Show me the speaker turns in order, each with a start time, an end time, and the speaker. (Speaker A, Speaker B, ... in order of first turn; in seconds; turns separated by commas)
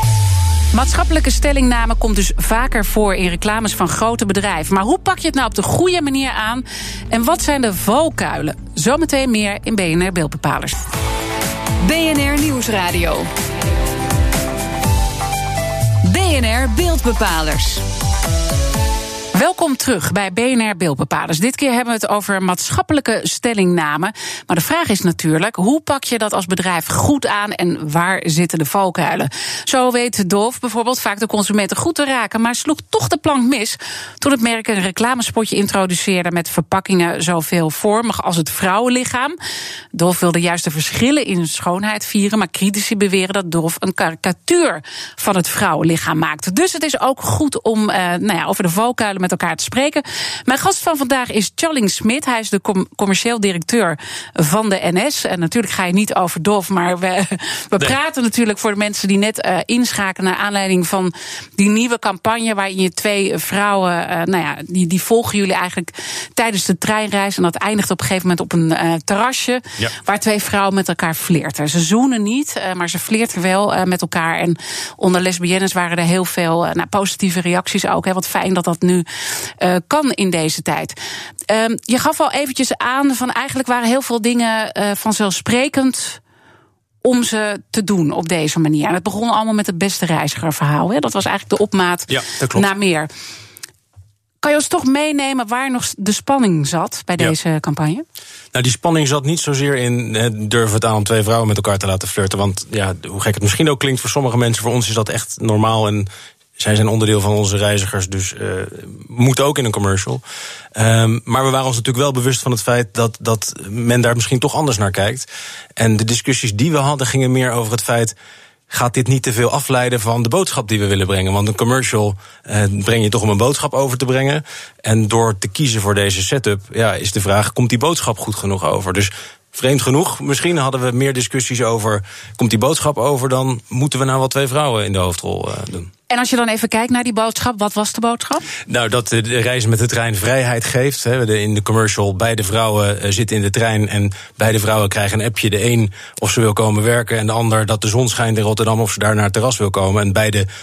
Speaker A: 0.7-10.8, Speaker B: 11.8-13.3, Speaker B: 16.1-17.8, Speaker A: 16.1-17.7, Speaker A: 19.3-39.4, Speaker A: 39.9-81.0, Speaker A: 81.5-86.2, Speaker A: 87.0-93.1, Speaker C: 92.1-92.7, Speaker A: 94.4-98.0, Speaker C: 98.5-110.2, Speaker C: 110.8-118.2, Speaker C: 118.7-135.9, Speaker A: 136.1-138.5, Speaker C: 138.7-150.5